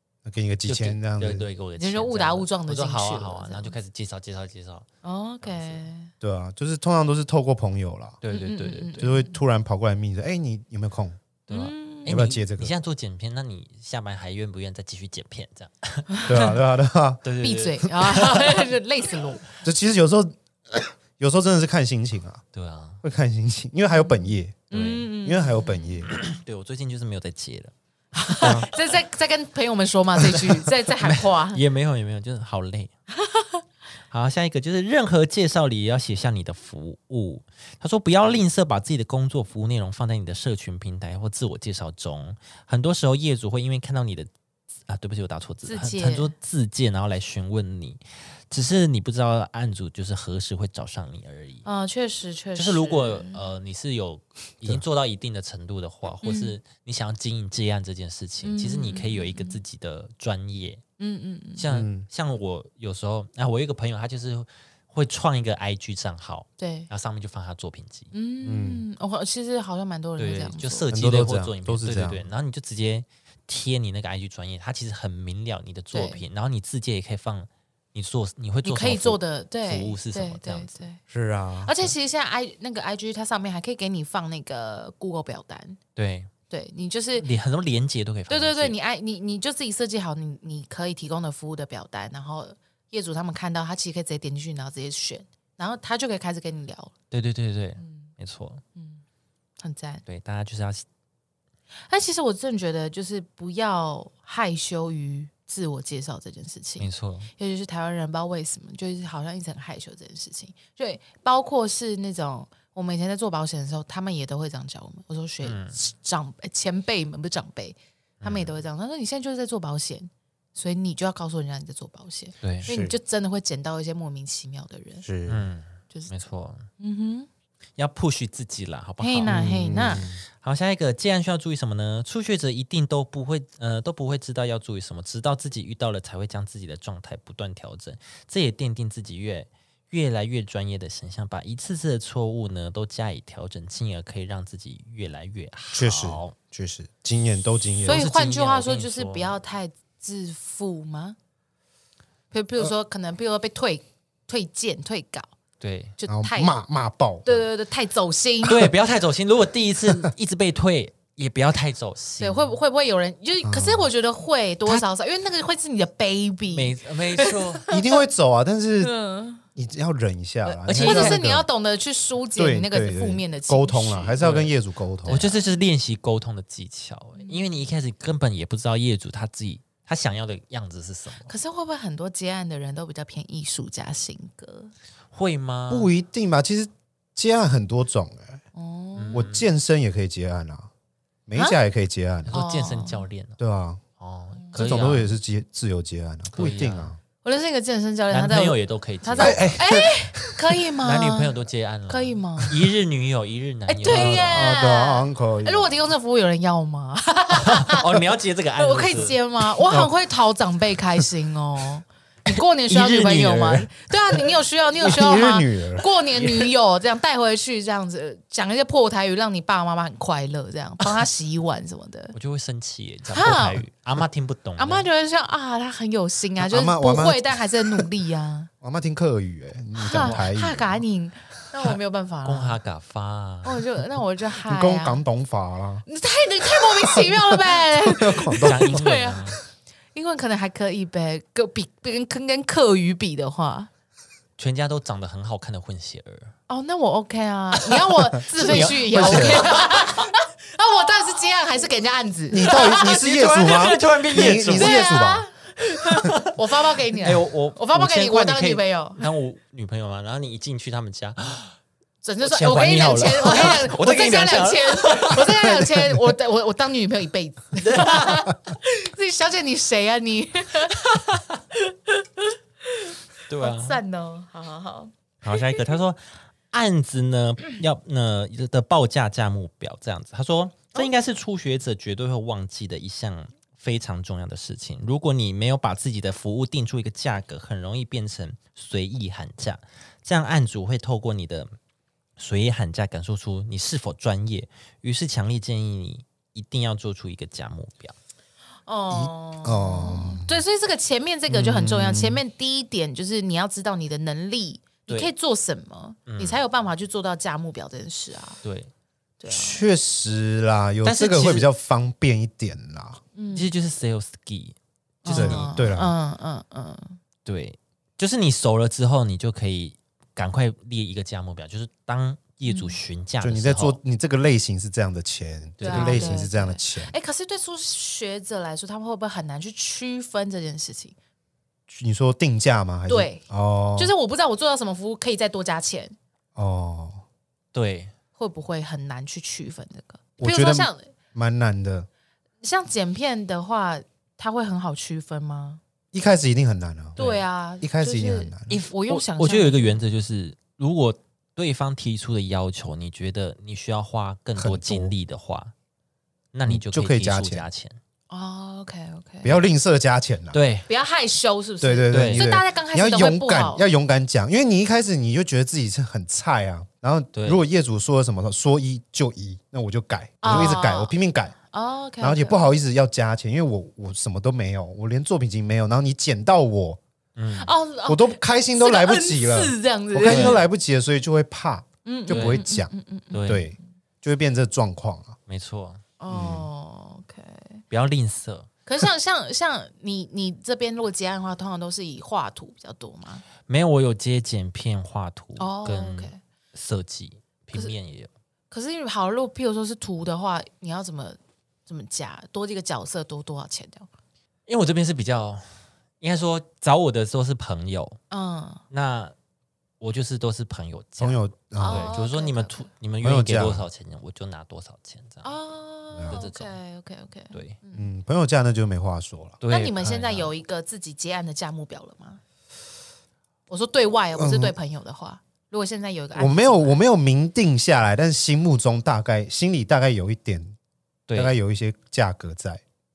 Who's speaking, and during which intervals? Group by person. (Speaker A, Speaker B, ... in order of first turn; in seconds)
Speaker A: 0.2-1.5, 6.2-8.2, 9.0-11.2, 12.1-12.7, 16.3-17.2, 19.6-22.4, 23.0-24.7, 25.2-26.1, 28.4-28.7, 61.7-62.1, 68.4-68.8, 70.9-72.2, 81.1-81.9, 122.7-123.0, 125.0-125.5, 129.3-130.1, 145.7-148.0, 156.1-157.4, 163.4-163.9, 167.7-168.9, 169.6-171.5, 172.3-175.3, 185.7-188.4, 189.1-190.7, 191.3-192.3, 193.4-193.8, 194.6-197.0, 199.2-199.9, 203.9-205.8, 214.8-215.9, 226.4-227.9, 228.6-230.8, 234.4-235.9, 236.8-238.6, 248.4-249.5, 252.3-255.2, 265.7-266.0, 298.9-300.4, 301.3-302.2, 309.3-313.0, 315.1-315.9, 323.2-326.9, 331.7-333.9, 336.4-337.0, 340.2-341.9, 345.9-347.0, 347.6-348.5, 354.4-354.9, 356.5-357.5, 359.2-360.4, 361.6-371.4, 372.0-376.8, 377.9-382.7, 383.2-385.2, 386.1-386.5, 411.0-411.9, 413.0-413.7, 415.9-416.2, 417.7-419.4, 424.2-424.6, 426.1-430.6, 431.1-432.6
Speaker B: 0.7-4.9, 5.4-5.9, 8.2-9.1, 11.5-16.2, 17.2-18.7, 22.5-23.0, 24.7-25.1, 26.1-27.7, 28.3-28.7, 31.0-32.9, 34.1-44.3, 44.9-51.6, 52.6-60.8, 61.6-68.1, 70.2-80.8, 86.0-86.3, 87.2-88.8, 97.1-98.6, 100.1-100.8, 106.8-107.3, 115.4-115.8, 118.2-118.5, 122.4-122.7, 125.3-126.7, 127.8-146.3, 147.7-149.3, 155.6-155.9, 158.4-162.5, 166.5-167.6, 170.7-171.2, 174.2-174.5, 175.1-181.3, 185.1-185.9, 189.0-189.5, 192.3-193.4, 194.0-195.2, 196.3-196.9, 198.1-199.6, 200.8-204.5, 207.3-209.2, 212.3-213.7, 216.1-216.5, 222.1-224.9, 231.6-233.6, 238.4-239.4, 244.4-246.3, 247.6-250.1, 252.5-254.9, 256.0-256.4, 256.9-261.6, 262.2-265.5, 267.6-268.3, 271.1-271.4, 273.3-273.8, 275.2-291.5, 292.2-297.9, 306.1-306.4, 308.4-308.7, 310.8-311.5, 313.3-315.6, 317.2-323.8, 325.6-326.2, 337.5-337.9, 347.0-347.2, 348.5-355.5, 356.3-357.8, 360.3-360.7, 361.9-362.3, 367.1-367.4, 370.3-370.6, 377.2-377.5, 380.1-380.4, 382.1-382.4, 383.1-383.5, 385.3-385.8, 387.7-388.5, 393.5-398.1, 404.5-408.0, 408.7-409.1, 409.8-415.3, 416.1-416.6, 419.4-420.3, 431.1-431.4
Speaker C: 1.8-3.8, 5.0-6.1, 8.3-9.4, 11.5-12.2, 16.1-16.6, 17.4-19.5, 23.9-26.0, 28.1-31.6, 33.2-33.6, 45.7-46.3, 51.6-53.4, 56.2-56.5, 58.4-59.6, 61.0-61.6, 66.6-66.9, 68.1-70.9, 75.9-76.2, 78.6-81.0, 81.7-85.8, 86.5-87.3, 88.3-96.9, 97.8-98.1, 98.8-99.0, 99.6-100.0, 101.9-125.1, 126.8-127.3, 129.0-130.1, 147.8-151.2, 152.3-155.3, 156.0-156.6, 157.2-158.7, 162.2-168.0, 168.8-169.4, 170.6-174.2, 175.1-175.4, 177.2-177.7, 181.3-184.7, 188.6-189.3, 192.3-193.1, 194.4-194.7, 197.2-202.6, 203.7-208.0, 208.6-222.2, 223.1-223.6, 224.6-228.5, 229.8-232.6, 233.4-235.0, 235.9-239.4, 239.9-243.7, 246.5-253.0, 254.2-259.1, 262.0-275.6, 298.7-308.4, 309.2-309.6, 313.1-313.5, 315.0-317.0, 322.5-322.8, 325.6-330.9, 332.9-333.2, 333.8-336.0, 338.2-340.9, 342.4-345.6, 347.0-349.8, 358.1-359.4, 360.7-363.7, 370.2-370.9, 371.5-372.5, 377.4-380.4, 381.9-383.5, 386.0-387.6, 388.7-393.2, 395.4-396.2, 398.5-403.9, 408.1-408.6, 411.6-412.7, 415.2-417.9, 419.5-422.2, 423.5-426.8